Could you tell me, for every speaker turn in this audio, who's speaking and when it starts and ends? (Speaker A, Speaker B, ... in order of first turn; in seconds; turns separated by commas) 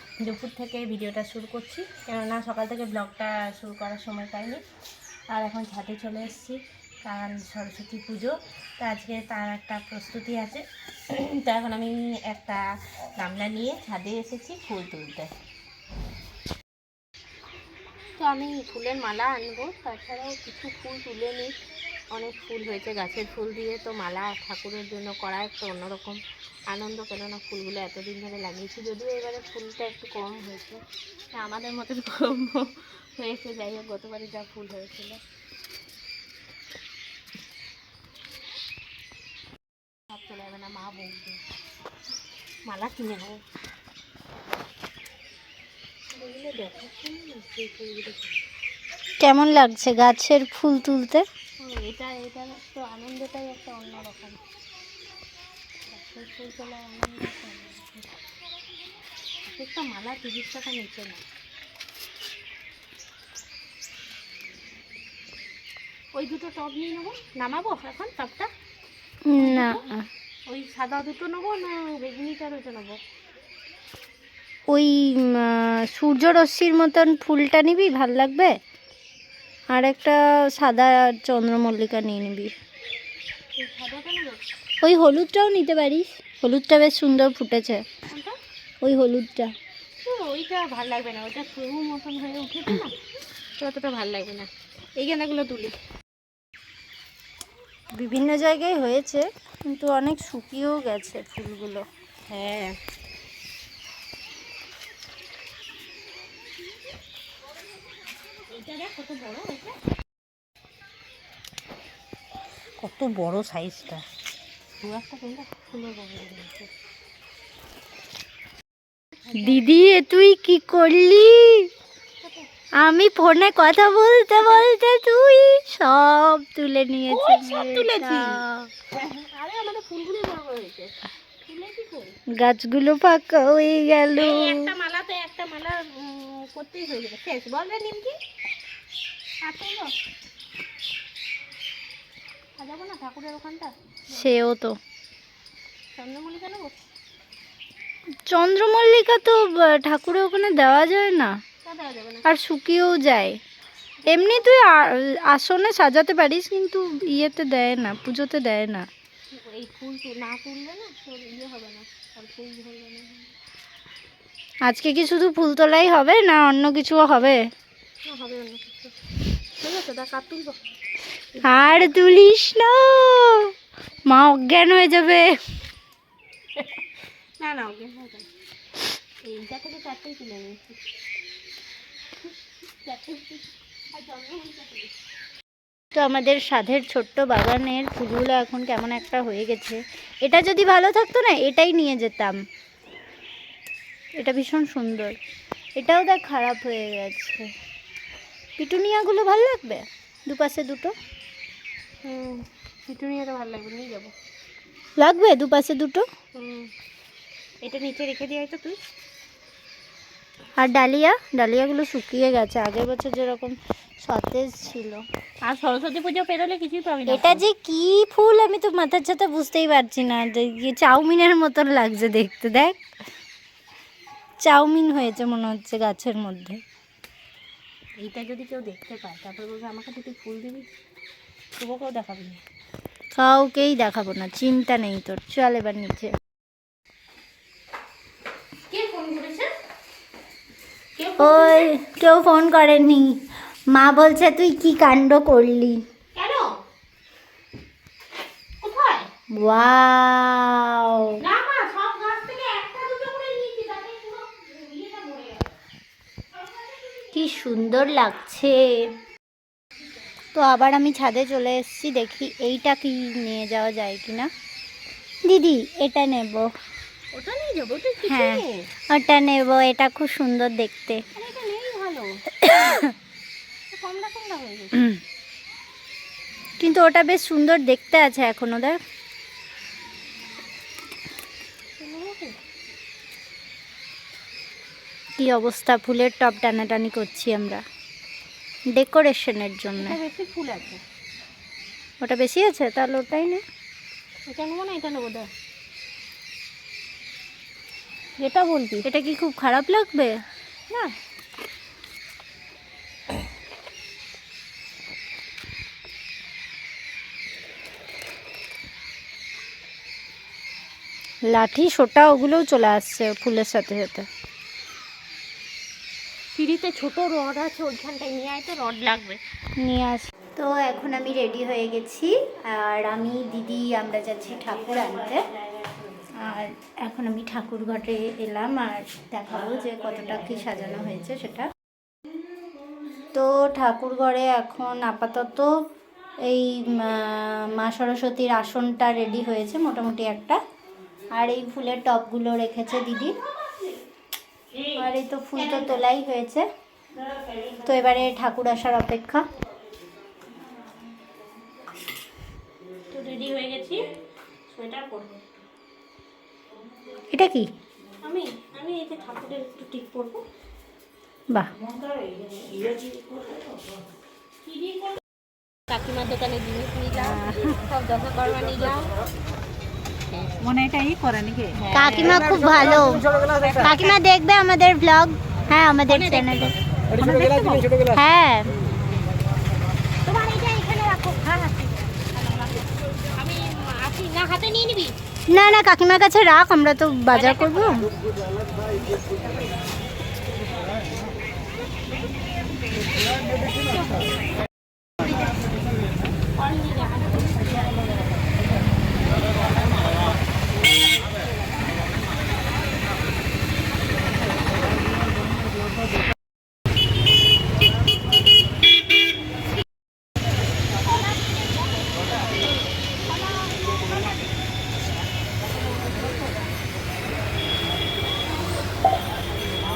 Speaker A: 0.2-4.6, Speaker A: 5.3-12.7, Speaker A: 13.2-15.3, Speaker A: 18.2-21.5, Speaker A: 22.1-26.2, Speaker A: 26.7-30.8, Speaker A: 31.3-35.2, Speaker A: 40.1-41.4, Speaker A: 42.7-43.4, Speaker A: 46.1-48.4, Speaker B: 49.2-51.2, Speaker A: 51.6-54.4, Speaker A: 55.9-58.1, Speaker A: 59.5-61.2, Speaker A: 66.1-68.5, Speaker B: 69.3-70.0, Speaker A: 69.3-69.8, Speaker A: 70.5-73.0, Speaker B: 74.7-78.5, Speaker B: 79.7-82.5, Speaker A: 83.5-84.4, Speaker B: 84.8-87.8, Speaker A: 88.1-88.4, Speaker B: 88.8-89.5, Speaker A: 90.0-92.9, Speaker A: 93.6-95.8, Speaker B: 98.0-101.8, Speaker A: 102.3-102.8, Speaker A: 108.5-109.8, Speaker A: 112.8-114.0, Speaker A: 114.8-116.7, Speaker B: 119.3-121.7, Speaker B: 122.8-128.7, Speaker A: 127.1-132.2, Speaker B: 132.4-134.7, Speaker A: 134.2-138.2, Speaker A: 139.4-139.9, Speaker A: 142.6-144.4, Speaker B: 144.1-144.8, Speaker A: 145.9-146.7, Speaker B: 148.3-151.3, Speaker A: 151.6-152.2, Speaker B: 152.2-153.3, Speaker A: 154.0-154.5, Speaker B: 154.1-158.9, Speaker A: 159.3-163.3, Speaker B: 164.6-167.4, Speaker A: 168.1-168.9, Speaker A: 169.6-170.6, Speaker A: 171.3-171.9, Speaker B: 171.4-173.5, Speaker B: 174.1-175.3, Speaker A: 177.4-178.3, Speaker A: 179.2-180.9, Speaker A: 182.8-184.9, Speaker B: 185.9-192.4, Speaker B: 194.2-195.2, Speaker B: 195.8-197.5, Speaker B: 198.6-200.9, Speaker A: 202.0-204.1, Speaker B: 205.0-206.0, Speaker A: 206.3-206.7, Speaker A: 207.6-208.8, Speaker B: 210.6-215.0, Speaker A: 215.4-217.4, Speaker B: 217.1-222.8, Speaker B: 224.4-226.6, Speaker A: 228.0-230.7, Speaker A: 231.6-232.4, Speaker B: 233.1-236.1, Speaker A: 238.7-239.5, Speaker A: 240.9-241.7, Speaker B: 241.2-245.8, Speaker A: 246.1-246.5, Speaker A: 248.6-249.1, Speaker B: 249.3-251.2, Speaker A: 251.2-255.5, Speaker A: 256.4-257.1, Speaker B: 257.1-258.8, Speaker B: 260.3-264.3, Speaker B: 265.2-266.5, Speaker A: 267.1-268.7, Speaker B: 268.0-271.0, Speaker A: 271.1-272.8, Speaker A: 273.7-274.9, Speaker B: 276.6-278.8, Speaker A: 281.8-282.4, Speaker B: 285.2-287.6, Speaker B: 288.7-290.0, Speaker A: 289.8-290.8, Speaker B: 292.0-293.4, Speaker A: 294.3-295.3, Speaker A: 298.2-298.8, Speaker B: 298.8-300.2, Speaker A: 300.7-300.9, Speaker B: 311.3-314.1, Speaker A: 316.3-319.2, Speaker B: 319.6-325.2, Speaker B: 326.1-331.5, Speaker B: 333.1-335.6, Speaker B: 336.2-340.4, Speaker B: 341.1-343.1, Speaker B: 344.8-346.5, Speaker B: 347.6-349.2, Speaker A: 352.9-353.9, Speaker A: 354.5-355.4, Speaker B: 357.1-357.5, Speaker A: 358.0-360.2, Speaker C: 361.7-363.7, Speaker A: 364.4-365.0, Speaker A: 365.7-368.9, Speaker C: 370.4-372.6, Speaker B: 371.7-373.1, Speaker A: 373.3-373.9, Speaker B: 373.6-376.5, Speaker A: 375.9-377.6, Speaker C: 377.0-377.9, Speaker B: 377.9-378.5, Speaker A: 380.0-384.9, Speaker B: 385.3-387.9, Speaker A: 387.1-387.9, Speaker A: 388.9-389.6, Speaker A: 393.4-394.1, Speaker A: 395.0-395.4, Speaker A: 396.4-398.3, Speaker A: 410.8-412.2, Speaker A: 413.1-414.3